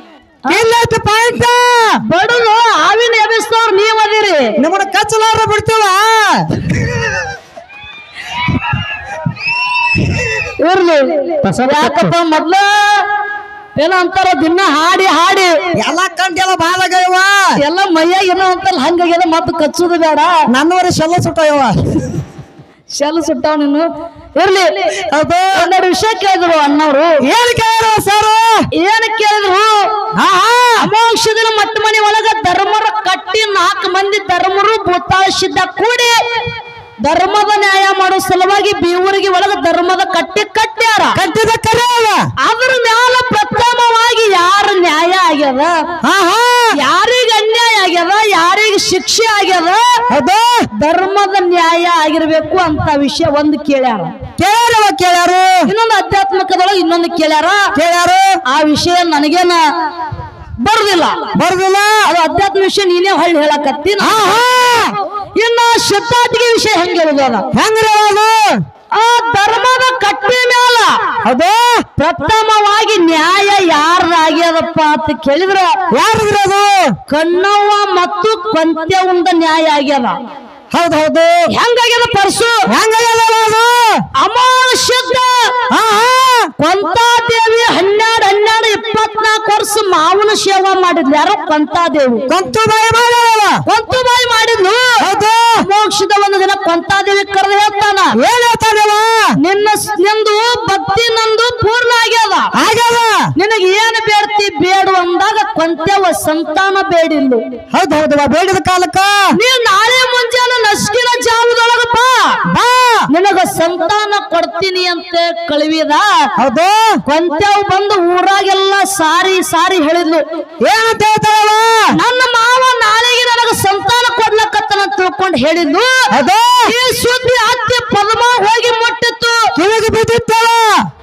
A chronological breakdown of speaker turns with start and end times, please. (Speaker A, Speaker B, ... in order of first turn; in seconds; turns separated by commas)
Speaker A: 0.5-2.0, Speaker B: 2.1-4.5, Speaker A: 4.6-6.5, Speaker B: 10.6-13.1, Speaker B: 13.8-15.5, Speaker A: 15.8-17.6, Speaker B: 17.6-20.4, Speaker A: 20.5-22.1, Speaker B: 22.9-25.0, Speaker A: 25.1-25.7, Speaker B: 25.5-27.2, Speaker A: 27.2-28.7, Speaker B: 28.8-29.9, Speaker A: 30.2-30.9, Speaker B: 30.8-36.2, Speaker B: 37.0-41.2, Speaker A: 41.1-42.2, Speaker B: 42.4-45.8, Speaker A: 46.0-46.8, Speaker B: 46.7-50.0, Speaker A: 50.1-50.7, Speaker B: 50.8-54.1, Speaker A: 54.4-55.7, Speaker B: 55.7-57.7, Speaker A: 57.8-58.4, Speaker B: 58.5-59.6, Speaker B: 60.6-61.3, Speaker A: 61.3-62.0, Speaker B: 62.0-64.3, Speaker A: 64.0-65.0, Speaker B: 65.4-67.5, Speaker A: 67.5-68.6, Speaker B: 68.9-71.0, Speaker A: 71.2-71.8, Speaker B: 72.0-75.8, Speaker A: 75.9-77.0, Speaker B: 77.1-80.2, Speaker A: 80.7-81.4, Speaker B: 81.5-82.7, Speaker A: 82.7-84.0, Speaker B: 84.2-85.6, Speaker A: 85.7-86.5, Speaker B: 86.6-92.2, Speaker A: 92.3-93.6, Speaker B: 93.7-95.0, Speaker A: 95.0-95.6, Speaker B: 95.6-98.2, Speaker A: 98.2-99.3, Speaker B: 99.4-102.5, Speaker A: 102.5-103.3, Speaker B: 103.4-107.4, Speaker A: 107.7-109.2, Speaker B: 109.3-112.4, Speaker A: 112.5-113.1, Speaker B: 113.1-116.3, Speaker A: 116.4-117.0, Speaker B: 117.1-120.2, Speaker A: 120.6-122.0, Speaker B: 121.9-126.1, Speaker A: 126.1-126.7, Speaker B: 126.7-129.5, Speaker A: 129.5-130.9